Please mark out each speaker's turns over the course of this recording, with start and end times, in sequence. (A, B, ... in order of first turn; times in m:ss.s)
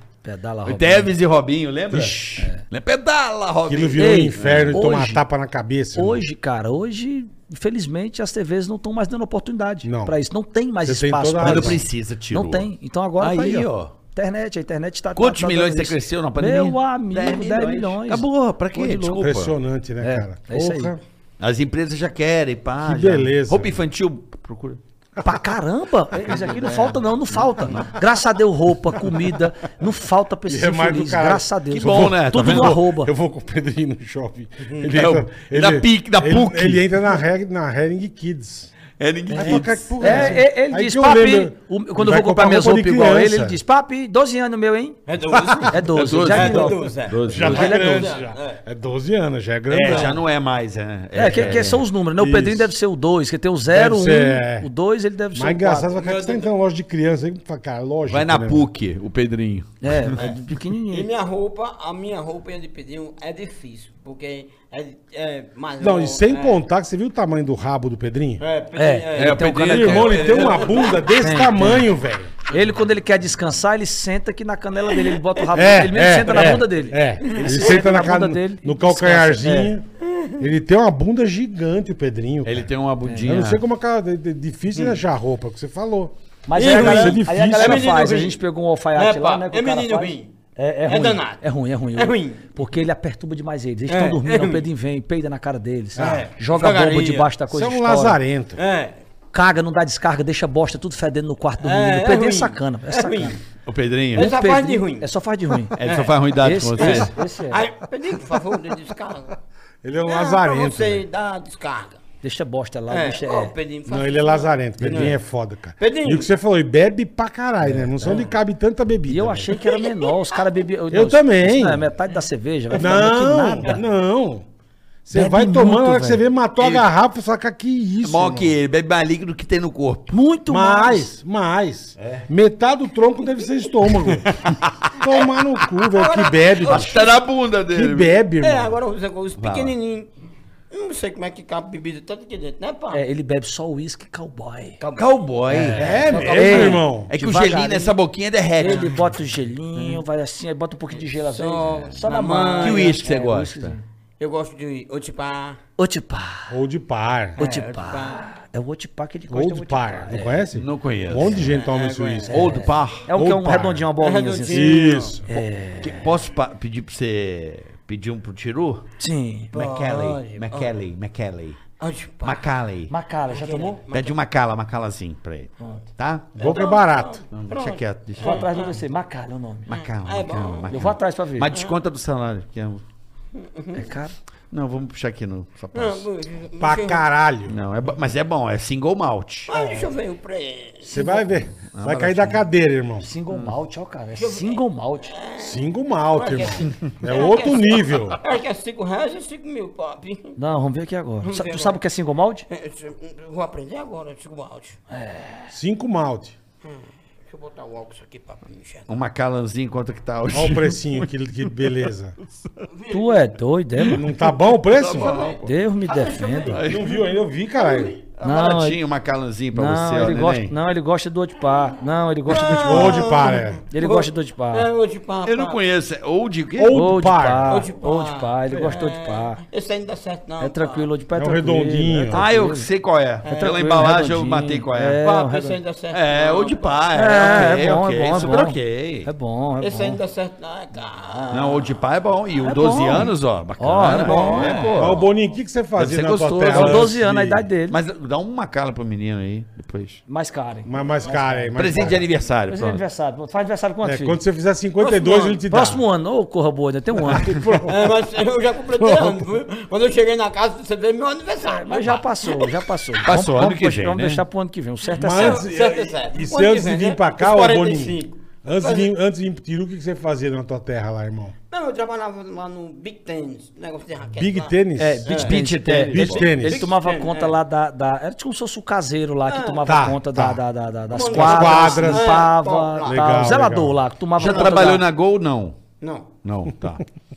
0:00.2-0:01.1 A
0:00.6-0:04.8 B
0:02.4-0:02.6 A
0:03.7-0:06.2 C
0:04.0-0:05.2 A
0:05.9-0:19.2 A
0:09.8-0:10.1 C
0:10.8-0:11.8 C
0:11.4-0:12.7 B
0:13.2-0:13.9 B
0:15.1-0:19.5 B
0:19.1-0:21.0 C
0:20.0-0:20.9 A
0:21.4-0:24.8 B
0:22.8-0:23.8 C
0:25.2-0:33.1 A
0:26.2-0:27.0 B
0:30.5-0:38.7 C
0:31.7-0:32.8 B
0:34.9-0:36.9 B
0:39.0-0:40.3 B
0:39.3-0:43.6 C
0:39.4-0:45.0 A
0:45.1-0:48.6 D
0:45.3-0:45.7 C
0:45.6-0:48.1 A
0:45.9-0:47.8 B
0:47.2-0:50.2 C
0:49.7-0:51.8 B
0:51.1-0:55.9 A
0:52.2-0:52.7 C
0:53.7-0:54.7 C
0:55.3-0:58.7 C
0:55.9-0:56.5 D
0:58.1-1:00.2 B
0:59.8-1:01.1 A
1:00.9-1:06.6 D
1:05.8-1:08.4 C
1:08.4-1:09.5 D
1:08.7-1:10.4 A
1:09.1-1:10.8 B
1:09.6-1:12.3 C
1:10.0-1:11.1 D
1:11.2-1:11.9 A
1:12.5-1:19.8 A
1:15.0-1:15.4 D
1:15.5-1:19.9 C
1:17.2-1:17.8 D
1:20.4-1:22.7 C
1:22.4-1:23.6 B
1:23.0-1:23.3 A
1:23.2-1:28.0 C
1:26.5-1:38.2 A
1:26.5-1:28.4 D
1:28.9-1:30.3 D
1:30.8-1:31.4 D
1:31.9-1:32.4 D
1:33.9-1:34.6 D
1:36.0-1:36.3 C
1:36.0-1:37.3 D
1:37.5-1:38.6 C
1:38.6-1:39.0 D
1:39.3-1:43.4 A
1:41.6-1:43.4 D
1:43.6-1:44.3 B
1:44.1-1:45.1 D
1:44.1-1:45.8 A
1:45.8-1:47.1 B
1:45.8-1:46.1 D
1:46.4-1:47.6 A
1:46.8-1:49.4 D
1:49.8-1:51.0 C
1:50.0-1:52.0 D
1:52.2-1:53.5 A
1:52.9-1:55.2 D
1:53.9-1:59.6 C
1:55.8-1:56.3 D
1:57.6-1:58.3 A
1:59.1-2:03.8 A
1:59.5-2:00.1 D
2:00.9-2:01.8 C
2:02.7-2:04.4 C
2:05.0-2:08.5 C
2:05.1-2:06.2 A
2:06.6-2:06.9 B
2:08.0-2:10.1 B
2:10.1-2:11.1 A
2:10.5-2:14.3 C
2:12.0-2:12.2 B
2:14.0-2:14.7 B
2:15.0-2:17.1 C
2:15.8-2:17.2 D
2:16.6-2:18.1 B
2:17.7-2:18.7 C
2:18.4-2:20.1 D
2:19.4-2:19.7 B
2:20.7-2:23.0 D
2:22.9-2:24.8 A
2:24.8-2:26.8 D
2:25.0-2:29.1 B
2:25.5-2:28.0 A
2:25.7-2:27.1 C
2:28.6-2:33.8 A
2:28.6-2:29.0 D
2:31.2-2:33.0 D
2:32.6-2:33.7 B
2:34.2-2:35.6 D
2:35.8-2:36.5 A
2:36.5-2:37.4 C
2:37.4-2:38.3 D
2:37.4-2:40.4 A
2:39.3-2:42.5 C
2:40.5-2:41.5 B
2:41.3-2:42.4 D
2:42.3-2:43.1 B
2:42.3-2:46.1 A
2:43.1-2:43.9 C
2:44.0-2:45.2 D
2:44.5-2:45.3 C
2:45.8-2:48.8 B
2:49.0-2:49.5 A
2:49.5-2:50.7 D
2:49.5-2:51.6 B
2:51.8-2:52.5 D
2:52.2-2:52.9 B
2:52.9-2:53.8 A
2:53.3-2:54.1 D
2:53.9-2:56.4 B
2:56.4-2:57.2 C
2:56.4-2:58.8 D
2:57.3-2:58.5 B
2:58.2-2:59.7 A
2:59.7-3:02.8 B
2:59.7-3:00.7 D
3:00.7-3:01.6 A
3:03.4-3:03.8 D
3:03.7-3:04.1 A
3:04.5-3:06.0 B
3:05.7-3:07.0 D
3:06.6-3:07.6 C
3:07.5-3:09.5 B
3:09.5-3:11.2 D
3:10.8-3:13.1 C
3:11.6-3:12.4 B
3:13.0-3:15.1 A
3:14.2-3:15.6 D
3:15.4-3:18.2 C
3:16.1-3:20.4 D
3:20.4-3:22.4 A
3:21.2-3:21.8 D
3:22.5-3:24.8 D
3:24.9-3:25.5 A
3:25.5-3:26.4 C
3:26.6-3:28.8 D
3:28.9-3:31.9 B
3:30.3-3:32.2 C
3:32.7-3:33.1 D
3:32.9-3:34.0 A
3:33.9-3:35.4 C
3:34.4-3:35.5 B
3:35.0-3:37.0 D
3:35.4-3:36.6 A
3:36.5-3:36.9 B
3:36.5-3:38.0 C
3:37.6-3:38.0 D
3:38.2-3:40.5 B
3:38.2-3:38.8 A
3:39.5-3:43.1 A
3:42.3-3:45.6 D
3:42.5-3:43.6 C
3:43.7-3:44.7 A
3:45.2-3:46.9 B
3:46.6-3:47.7 C
3:46.7-3:49.4 A
3:47.5-3:50.9 D
3:50.4-3:52.7 A
3:51.2-3:52.2 C
3:52.1-3:55.0 B
3:53.2-3:53.6 D
3:53.3-3:55.6 A
3:55.0-3:56.7 D
3:55.9-3:59.1 B
3:56.9-4:00.0 A
3:59.6-4:01.7 D
4:01.1-4:01.6 A
4:01.3-4:05.0 B
4:02.4-4:04.7 A
4:03.8-4:05.1 D
4:04.7-4:07.4 C
4:05.8-4:06.9 B
4:06.4-4:07.8 A
4:07.7-4:10.0 B
4:10.1-4:11.6 A
4:10.6-4:12.1 C
4:11.5-4:12.8 B
4:12.5-4:14.2 A
4:13.8-4:15.8 C
4:14.8-4:15.4 D
4:15.5-4:17.6 A
4:17.0-4:18.0 C
4:17.7-4:22.6 D
4:18.8-4:19.2 C
4:21.5-4:25.4 A
4:23.0-4:24.2 B
4:24.9-4:31.3 C
4:25.1-4:28.9 D
4:31.5-4:34.5 D
4:34.2-4:35.1 C
4:34.8-4:44.8 A
4:35.0-4:35.3 D
4:35.1-4:36.3 B
4:35.9-4:36.7 C
4:36.3-4:37.3 D
4:39.3-4:39.7 D
4:39.6-4:40.4 C
4:40.9-4:43.0 D
4:41.0-4:42.3 C
4:42.8-4:43.8 C
4:44.2-4:44.8 D
4:44.2-4:45.6 B
4:45.8-4:46.1 D
4:46.2-4:46.8 B